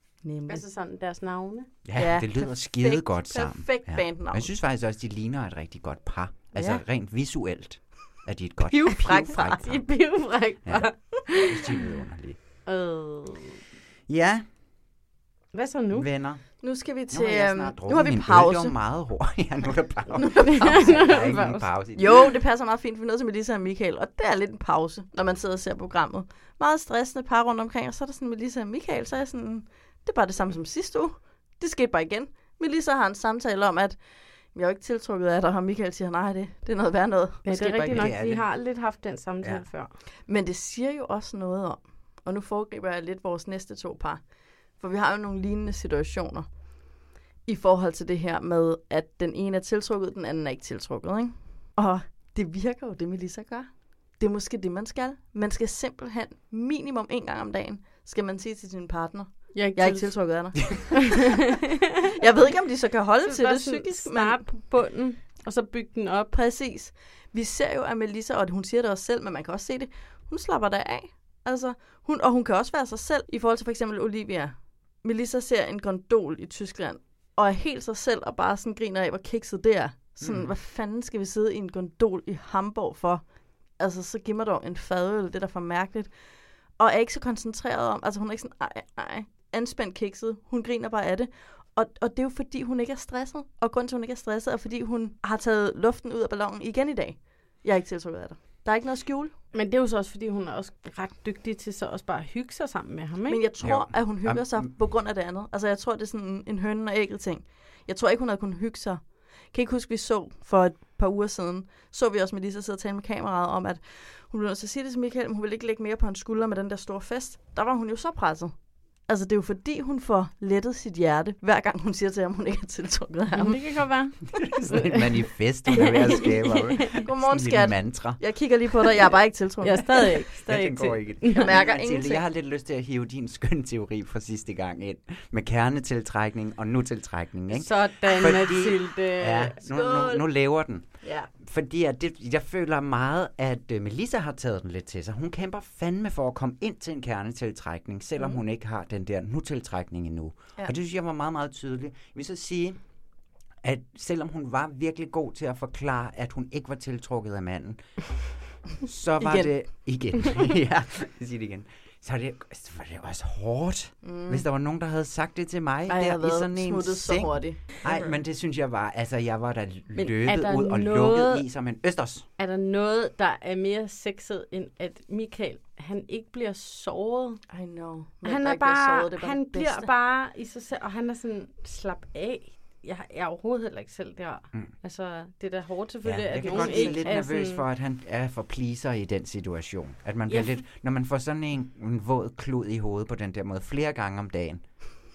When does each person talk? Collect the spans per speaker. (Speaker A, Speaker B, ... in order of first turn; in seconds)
Speaker A: 0.2-0.6, 1.9-4.5, 8.7-9.8, 16.6-18.7, 20.1-20.8, 21.9-34.0, 34.5-38.1, 40.3-44.2, 44.8-46.5, 47.4-61.4, 62.2-64.4, 66.3-83.2, 83.8-86.1, 86.8-99.3, 103.3-123.6, 127.0-130.0, 131.3-132.2, 139.7-140.2, 141.0-141.3, 159.2-159.5, 164.0-164.4, 165.9-168.2, 177.5-179.9, 186.4-187.1
Speaker B: 0.5-1.7, 9.6-11.5, 12.7-13.6, 15.5-16.1, 20.4-21.7, 37.4-39.9, 59.5-60.8, 63.2-66.3, 99.5-103.4, 123.3-125.0, 125.7-127.0, 129.6-131.5, 137.5-139.6, 169.9-171.4, 172.4-177.4, 178.2-187.6
Speaker C: 1.8-12.4, 14.1-14.4, 15.9-22.3, 37.9-38.5, 80.2-80.5, 103.6-104.7, 124.3-128.4, 130.4-152.8, 153.6-158.2, 158.8-172.3, 186.0-194.6